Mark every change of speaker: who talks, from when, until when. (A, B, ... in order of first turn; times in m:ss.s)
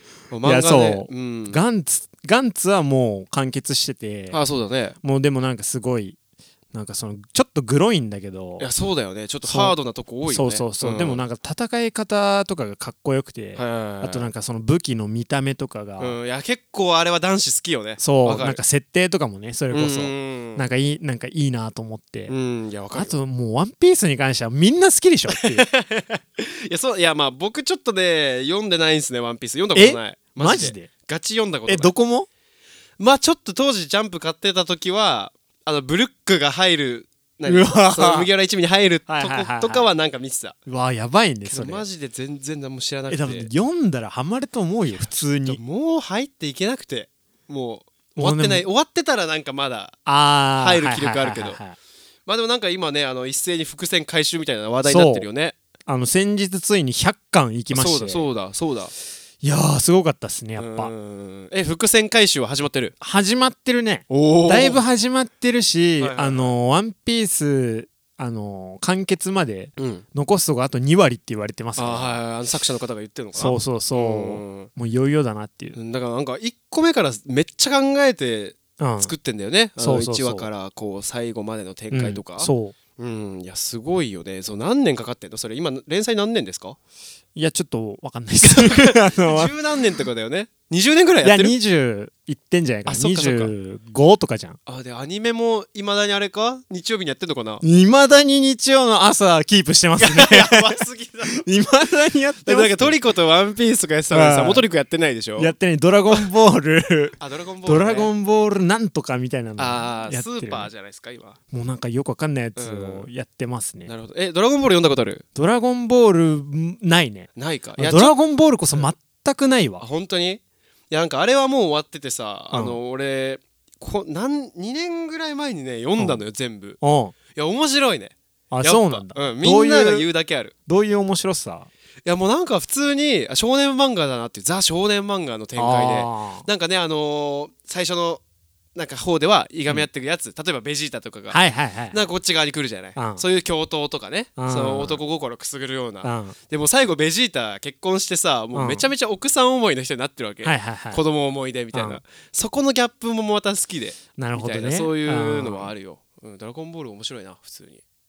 0:00.3-0:01.6 A
0:00.4-0:04.4 B
0:04.3-0:05.0 A
0:05.0-0:06.2 B
0:06.7-0:08.7 B
0:08.6-0:11.2 A
0:09.4-0:09.8 B
0:10.3-0:16.2 B
0:13.6-0:14.3 A
0:16.0-0:18.6 A
0:18.0-0:22.3 B
0:19.7-0:20.7 A
0:22.3-0:23.1 A
0:22.9-0:25.6 B
0:25.3-0:31.9 A
0:29.8-0:30.9 B
0:31.7-0:32.3 B
0:33.0-0:40.6 A
0:37.5-0:38.3 B
0:39.1-0:39.9 B
0:40.7-0:41.8 B
0:41.5-0:43.5 A
0:43.1-0:45.6 B
0:45.0-0:50.0 A
0:48.2-0:48.6 B
0:50.1-0:51.8 B
0:50.6-0:51.6 A
0:52.3-0:55.6 A
0:54.8-0:55.3 B
0:55.9-0:58.3 B
0:57.7-0:58.9 A
0:59.4-1:00.9 B
1:00.6-1:03.0 A
1:03.0-1:12.2 B
1:04.1-1:04.8 A
1:06.0-1:06.5 A
1:09.8-1:10.0 A
1:11.8-1:14.7 A
1:13.4-1:15.8 B
1:15.8-1:26.8 A
1:18.8-1:19.1 B
1:19.8-1:20.5 B
1:21.9-1:22.8 B
1:27.4-1:29.5 B
1:28.4-1:31.6 A
1:31.2-1:34.6 B
1:32.9-1:33.5 A
1:34.7-1:37.6 A
1:37.6-1:43.0 B
1:40.0-1:41.5 A
1:42.4-1:45.5 A
1:44.1-1:44.6 B
1:45.4-1:50.7 B
1:47.2-1:48.1 A
1:49.6-1:51.4 A
1:51.5-1:53.9 B
1:52.6-1:53.1 A
1:53.9-1:55.2 A
1:55.4-1:59.8 B
1:57.4-1:58.2 A
1:59.8-2:06.8 A
2:02.5-2:02.8 B
2:06.8-2:07.1 B
2:07.3-2:10.5 A
2:08.5-2:10.1 B
2:10.7-2:11.7 B
2:12.0-2:18.2 A
2:15.6-2:16.5 B
2:18.8-2:21.4 A
2:21.3-2:22.0 B
2:21.9-2:37.8 A
2:23.0-2:23.2 B
2:24.4-2:25.0 B
2:26.0-2:26.4 B
2:28.5-2:28.9 B
2:30.4-2:31.0 B
2:31.7-2:32.0 B
2:34.2-2:35.7 B